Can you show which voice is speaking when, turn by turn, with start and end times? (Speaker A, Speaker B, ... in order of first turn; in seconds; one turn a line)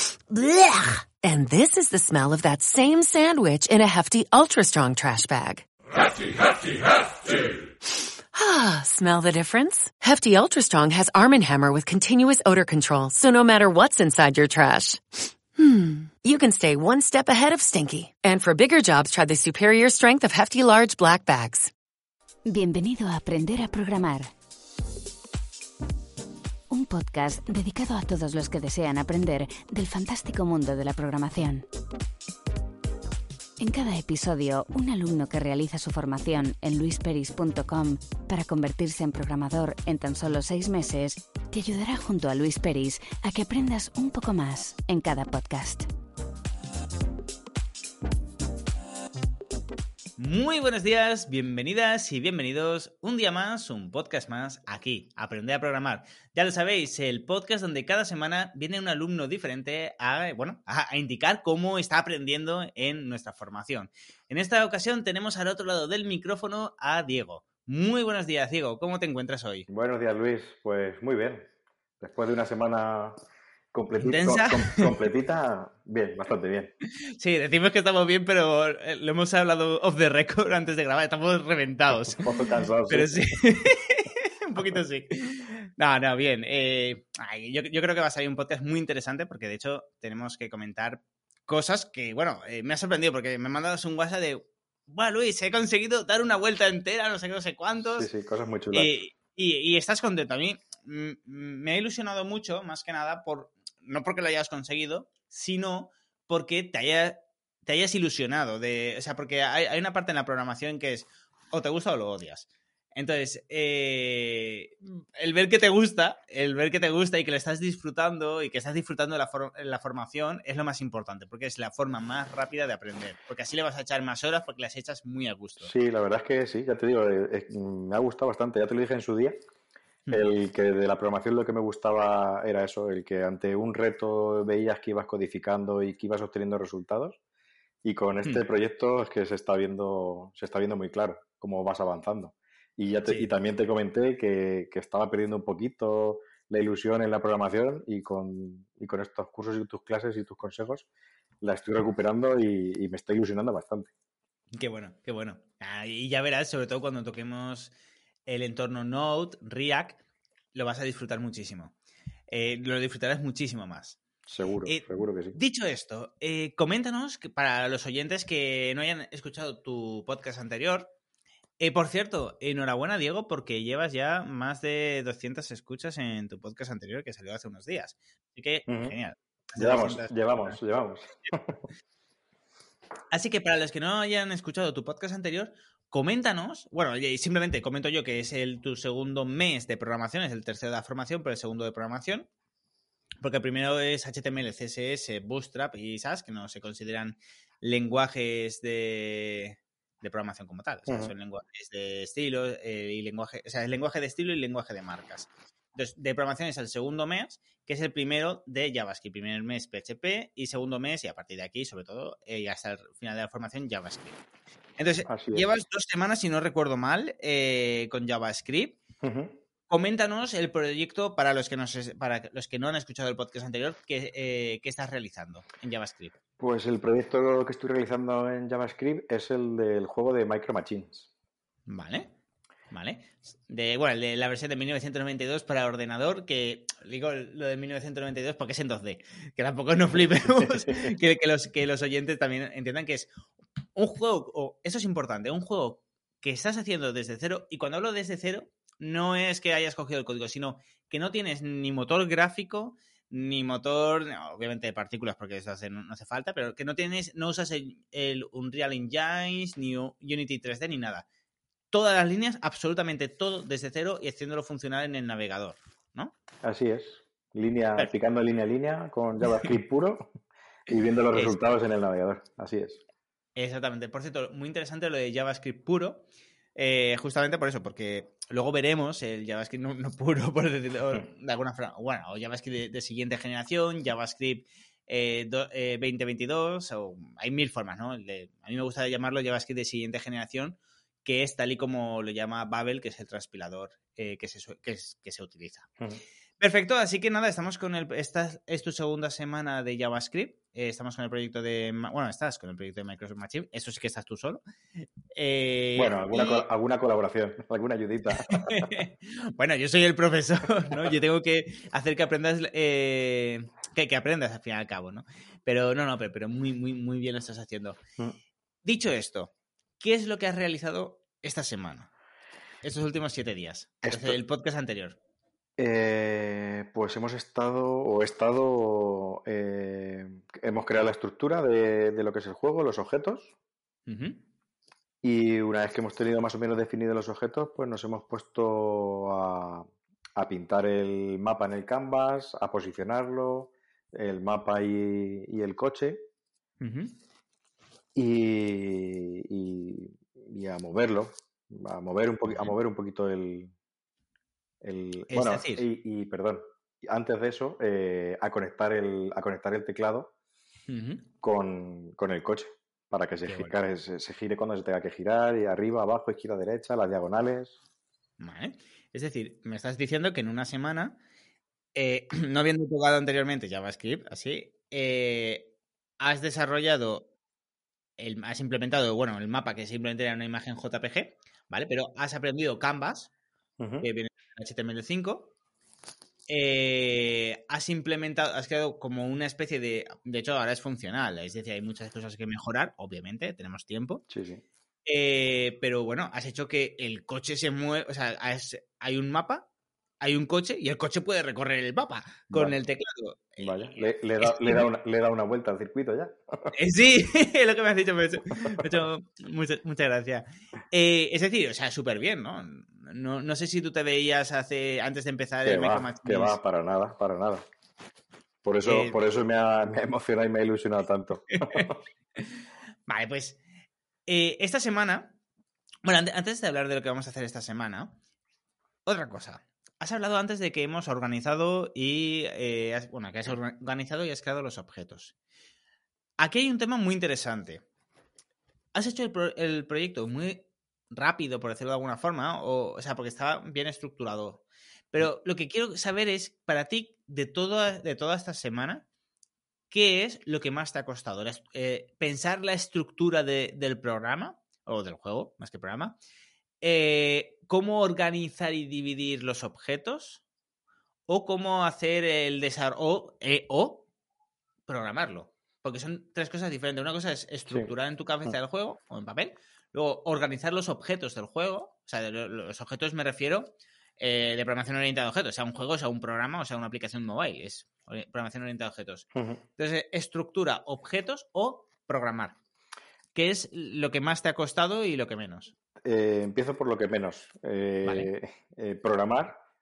Speaker A: 0.3-5.7
Speaker A: 8.3-21.7
Speaker B: 22.4-24.3
Speaker B: 26.7-31.6
Speaker B: 33.6-45.9
Speaker C: 50.2-69.7
Speaker D: 69.7-71.4
Speaker D: 72.0-73.2
Speaker D: 73.7-76.7
Speaker C: 74.0-75.0
Speaker C: 77.2-82.2
Speaker D: 82.1-83.1
Speaker C: 82.9-98.1
Speaker D: 97.9-98.9
Speaker C: 98.7-125.7
Speaker D: 125.6-129.3
Speaker D: 130.1-137.2
Speaker D: 137.8-150.9
Speaker D: 151.4-153.9
Speaker C: 154.5-157.7
Speaker C: 158.2-160.0
Speaker C: 160.5-161.8
Speaker C: 162.3-164.0
Speaker D: 164.3-165.4
Speaker C: 164.6-170.9
Speaker C: 171.6-180.6
Speaker D: 178.7-178.9
Speaker D: 179.6-181.6
Speaker C: 183.1-192.3
Speaker C: 193.2-214.2
Speaker D: 200.9-201.1
Speaker C: 214.8-218.8
Speaker D: 215.1-215.4
Speaker D: 219.0-219.3
Speaker C: 219.7-226.1
Speaker D: 226.4-231.1
Speaker C: 231.7-232.1
Speaker C: 232.7-243.1
Speaker D: 240.4-240.9
Speaker C: 243.7-261.1
Speaker C: 261.7-266.1
Speaker D: 266.4-270.0
Speaker D: 270.7-272.8
Speaker C: 271.1-271.4
Speaker C: 273.4-295.7
Speaker C: 296.4-304.4
Speaker C: 305.1-306.4
Speaker D: 305.7-308.7
Speaker C: 308.3-317.8
Speaker C: 318.6-321.9
Speaker C: 322.6-325.0
Speaker D: 323.8-324.2
Speaker D: 325.6-333.3
Speaker C: 333.9-334.2
Speaker D: 335.0-346.0
Speaker C: 346.6-346.9
Speaker D: 347.9-353.5
Speaker C: 352.3-352.5
Speaker D: 354.6-360.1
Speaker C: 355.1-355.6
Speaker C: 360.7-361.0
Speaker D: 361.2-367.6
Speaker C: 363.2-363.5
Speaker C: 368.2-371.0
Speaker C: 371.7-377.1
Speaker C: 378.0-383.1
Speaker D: 383.6-383.9
Speaker C: 383.8-385.3
Speaker C: 386.3-394.0
Speaker D: 394.1-394.4
Speaker C: 394.9-399.5
Speaker C: 400.0-404.7
Speaker D: 402.3-402.6
Speaker D: 403.4-406.5
Speaker C: 406.5-416.4
Speaker D: 415.4-417.4
Speaker D: 418.4-421.8
Speaker C: 418.6-419.0
Speaker C: 421.5-422.2
Speaker C: 422.9-423.4
Speaker C: 424.1-425.2
Speaker C: 425.8-428.0
Speaker C: 428.9-435.1
Speaker C: 436.2-437.6
Speaker C: 438.7-448.9
Speaker C: 449.7-456.0
Speaker C: 456.6-460.2
Speaker C: 461.1-463.9
Speaker C: 464.7-482.4
Speaker D: 479.1-479.4
Speaker C: 483.1-485.5
Speaker D: 485.8-489.4
Speaker C: 487.8-488.1